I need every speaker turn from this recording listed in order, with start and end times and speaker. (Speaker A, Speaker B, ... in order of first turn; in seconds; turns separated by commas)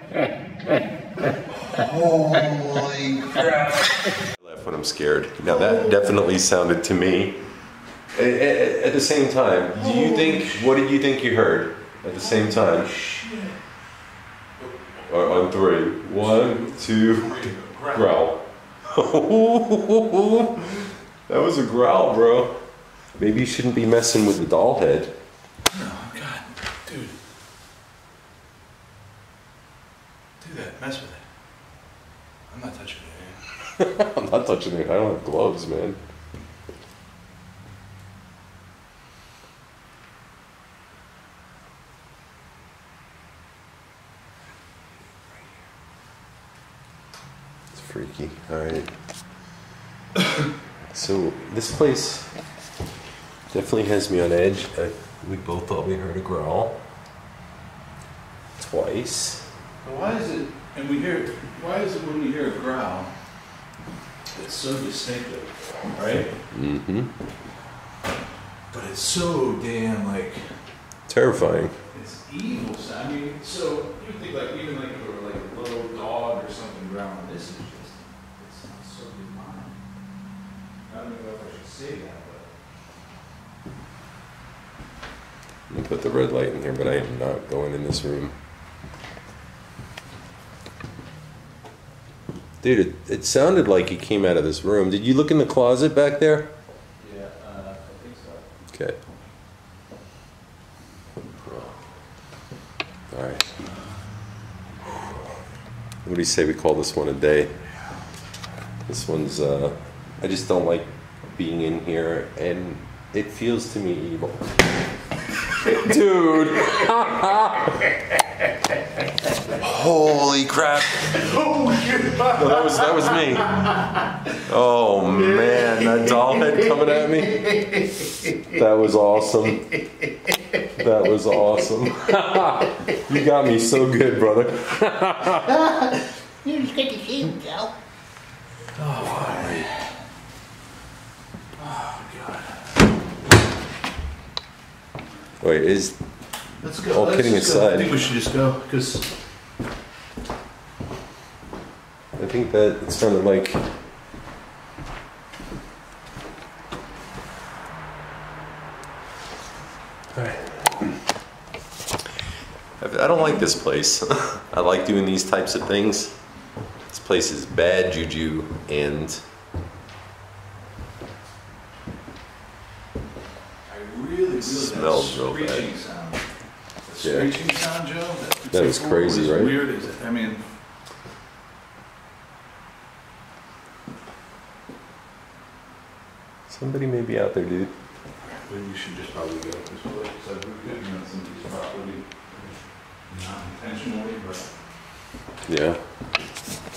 Speaker A: 2.7-3.1, Speaker B: 3.3-3.7, Speaker B: 4.2-7.5, Speaker B: 8.1-12.9, Speaker C: 9.7-10.7, Speaker C: 12.2-13.6, Speaker C: 14.6-15.3, Speaker B: 15.1-25.2, Speaker C: 16.1-18.1, Speaker C: 25.7-27.2, Speaker C: 30.4-31.3, Speaker C: 32.5-33.4, Speaker B: 33.8-36.0, Speaker B: 47.7-49.0, Speaker B: 50.9-52.4, Speaker B: 53.5-56.8, Speaker B: 58.6-59.5, Speaker C: 59.8-63.1, Speaker C: 64.3-66.4, Speaker B: 66.5-67.1, Speaker C: 68.7-70.6, Speaker B: 71.1-71.8, Speaker C: 71.9-79.8, Speaker C: 80.9-82.5, Speaker B: 85.7-88.4, Speaker B: 92.6-96.6, Speaker C: 97.0-98.5, Speaker B: 98.7-99.0, Speaker B: 101.4-101.8, Speaker B: 103.1-103.7, Speaker B: 106.0-107.6, Speaker B: 108.9-114.5, Speaker B: 115.6-117.9, Speaker B: 119.6-121.3, Speaker B: 122.2-123.7, Speaker B: 124.4-127.5, Speaker A: 125.4-126.0, Speaker B: 128.5-129.7, Speaker B: 130.8-135.5, Speaker A: 136.5-137.4, Speaker C: 138.8-139.7, Speaker B: 139.0-139.7, Speaker C: 141.6-142.7, Speaker B: 145.4-146.0, Speaker C: 146.6-149.1, Speaker B: 146.9-148.1, Speaker B: 152.2-153.7, Speaker B: 160.2-161.0, Speaker B: 162.8-166.2, Speaker B: 166.8-169.2, Speaker C: 173.7-176.3, Speaker B: 174.4-175.7, Speaker C: 176.8-180.4, Speaker B: 177.0-177.3, Speaker B: 178.5-179.6, Speaker B: 186.5-187.7, Speaker C: 188.4-192.1, Speaker C: 193.1-194.5, Speaker B: 195.4-195.9